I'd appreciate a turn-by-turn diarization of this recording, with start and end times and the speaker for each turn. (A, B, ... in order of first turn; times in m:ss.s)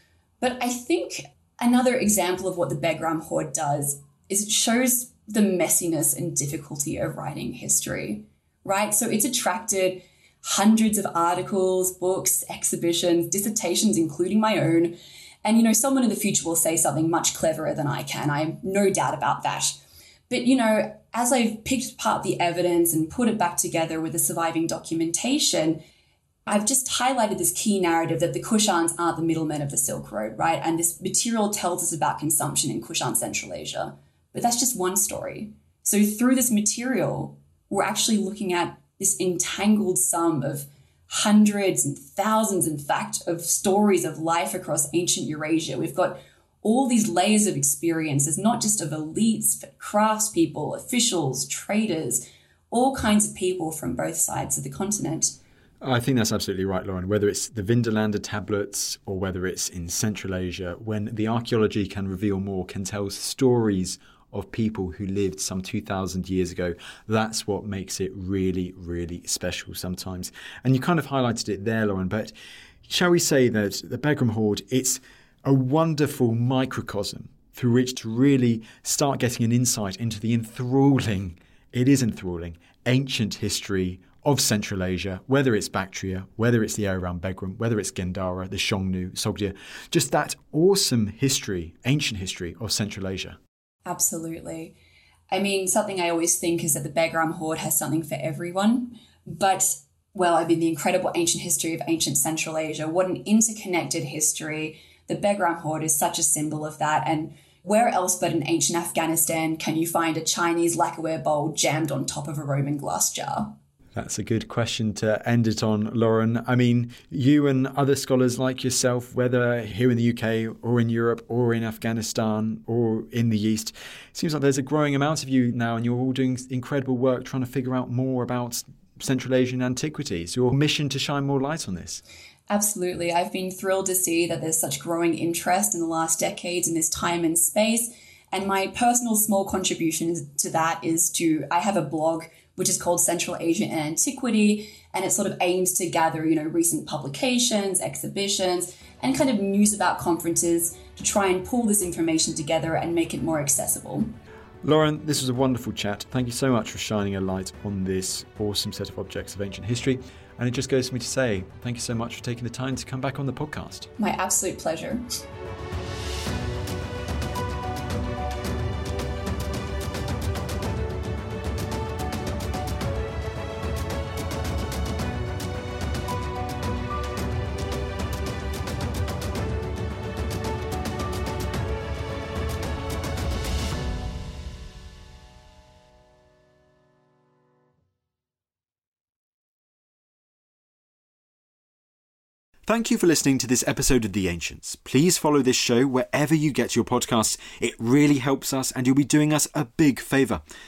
0:00.4-0:19.8 A
0:20.3-0:25.8 A
0:26.5-0:55.4 A
0:55.8-1:12.3 B
1:12.9-1:33.4 B
1:33.9-1:34.7 A
1:35.3-1:53.5 A
1:54.0-2:12.0 B
2:12.5-2:34.1 A
2:34.6-2:43.9 B
2:44.0-2:45.0 A
3:12.7-3:20.4 B